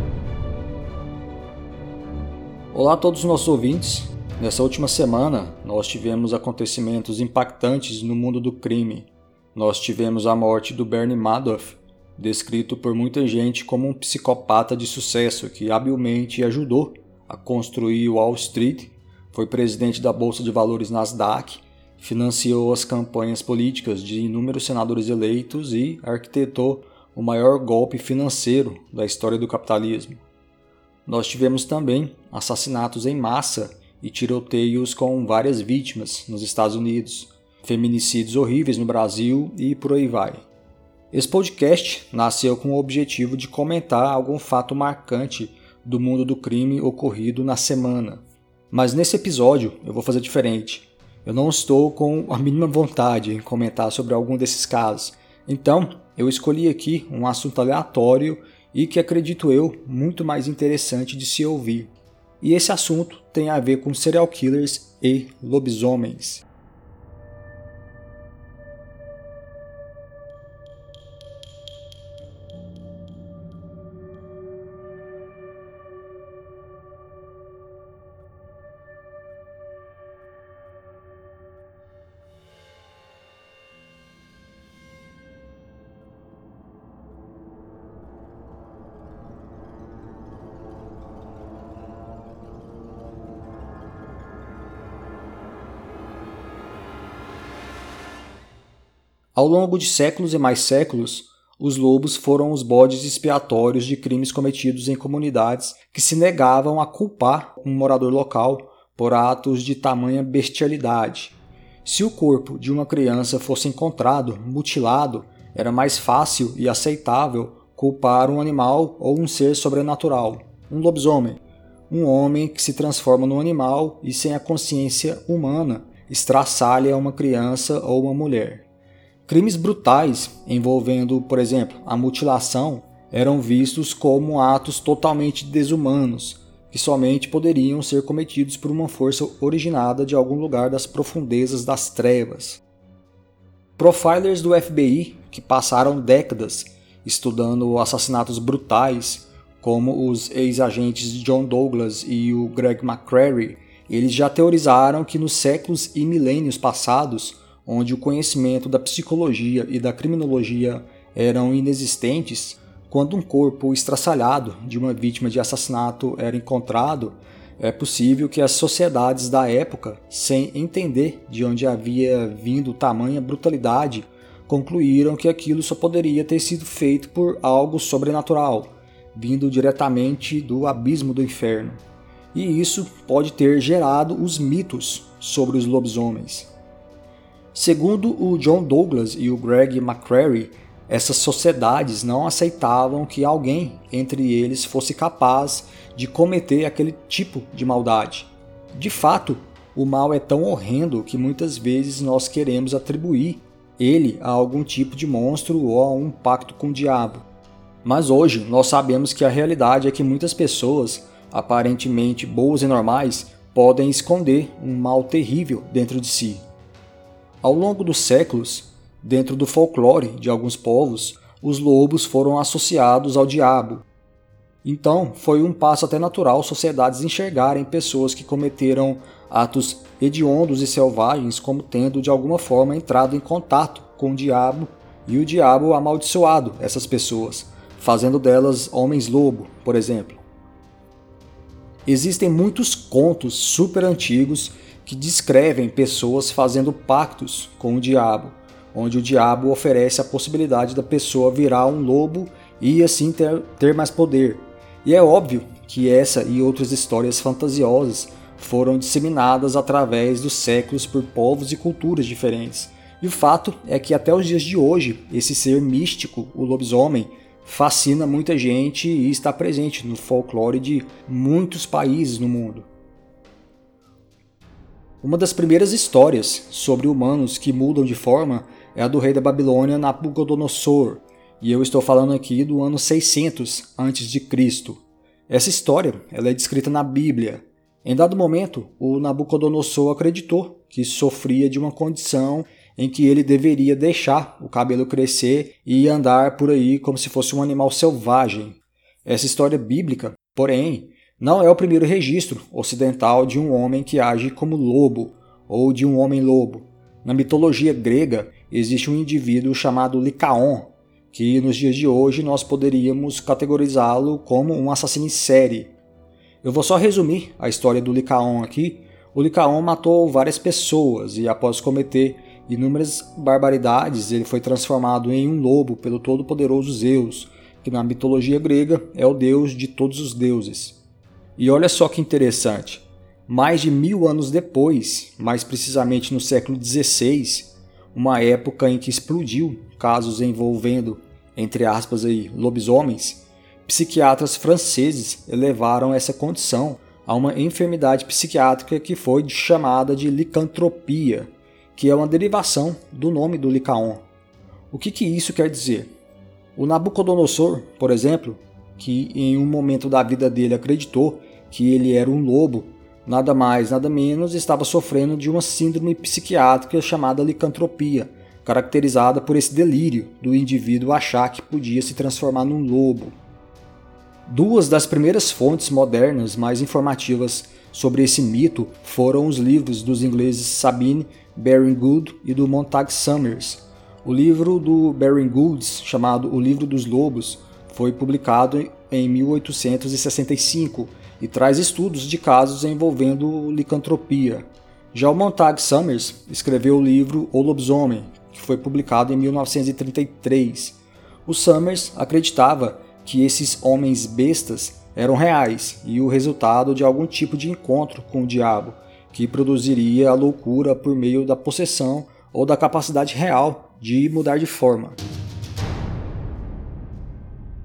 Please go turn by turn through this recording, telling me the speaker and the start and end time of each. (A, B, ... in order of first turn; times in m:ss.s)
0:02.7-0:30.2 A
0:31.1-0:40.4 A
0:41.1-1:06.4 A
1:39.4-2:08.7 A
2:09.3-2:22.6 A
2:23.8-3:01.8 A
3:02.3-3:06.5 A
3:07.5-3:27.2 A
3:27.8-3:36.4 A
3:37.4-3:43.8 A
3:44.6-4:00.2 A
4:01.9-4:32.7 A
4:35.0-5:15.8 A
5:16.4-5:30.8 A
5:31.4-5:54.0 A
5:54.7-5:55.9 A
5:56.6-6:13.2 A
6:14.3-6:55.0 A